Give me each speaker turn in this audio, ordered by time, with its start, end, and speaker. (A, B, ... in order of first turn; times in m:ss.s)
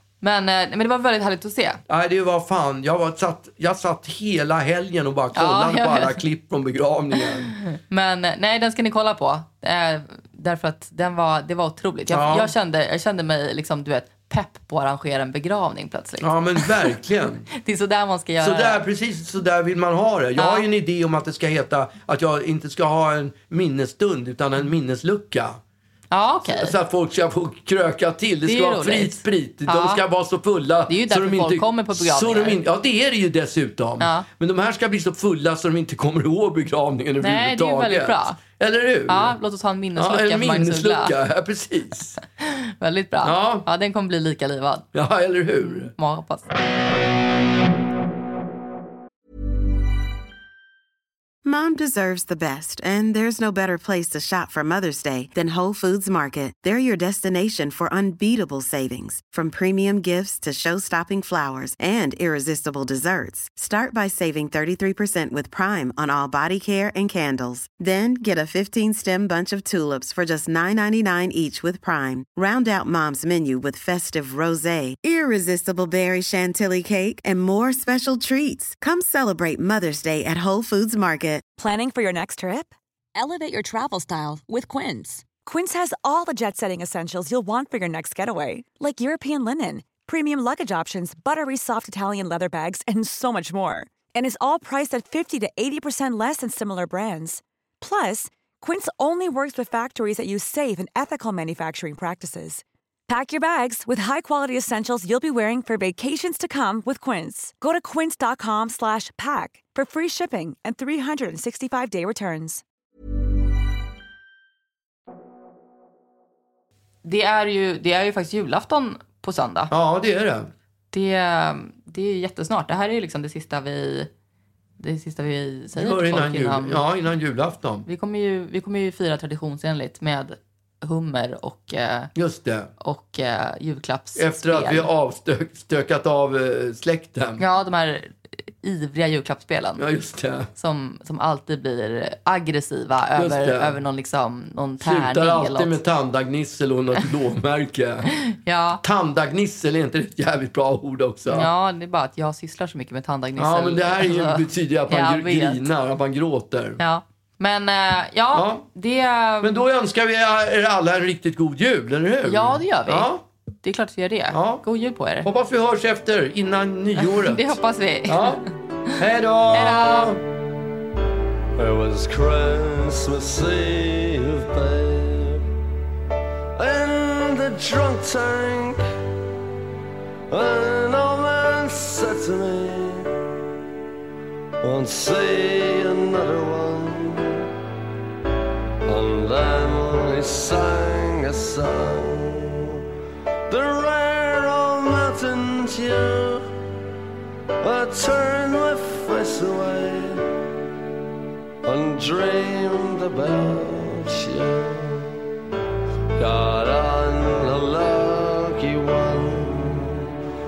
0:00.2-0:01.8 A
0:01.9-0:07.5 B
0:05.3-0:06.2 A
0:07.2-0:17.0 A
0:12.1-0:12.5 B
0:16.2-0:17.4 B
0:17.5-0:18.8 A
0:18.4-0:25.6 B
0:20.4-0:20.6 A
0:26.1-0:26.7 A
0:26.4-0:39.3 B
0:28.4-0:30.0 A
0:30.9-0:32.6 A
0:34.0-0:34.2 A
0:37.2-0:38.4 A
0:39.1-0:41.1 A
0:40.0-0:42.2 B
0:42.4-0:44.9 A
0:43.2-0:43.7 B
0:44.9-0:45.9 B
0:45.6-0:46.5 A
0:51.4-1:21.4 C
1:21.6-1:52.6 D
1:57.0-1:59.7 A
1:59.7-2:00.5 B
2:00.9-2:04.1 A
2:04.8-2:06.8 A
2:05.7-2:07.8 B
2:07.8-2:12.1 A
2:12.1-2:12.7 B
2:12.8-2:14.9 A
2:14.2-2:17.4 B
2:17.4-2:19.8 A
2:19.8-2:20.5 B
2:20.5-2:25.8 A
2:23.2-2:23.8 B
2:24.8-2:28.1 B
2:28.2-2:28.8 A
2:28.8-2:31.5 B
2:31.3-2:35.6 A
2:33.4-2:36.8 B
2:36.8-2:39.6 A
2:38.3-2:38.6 B
2:39.4-2:43.2 B
2:42.2-2:43.1 A
2:43.6-2:45.3 A
2:44.3-2:44.6 B
2:45.2-2:48.4 B
2:47.0-2:49.0 A
2:49.0-2:50.2 B
2:49.5-2:50.1 A
2:51.6-2:55.4 E
2:56.6-2:58.8 E
3:00.3-3:03.1 E
3:04.6-3:07.4 E
3:08.8-3:12.8 E
3:13.5-3:16.5 E
3:17.6-3:20.2 E
3:21.6-3:25.2 E
3:26.2-3:30.0 E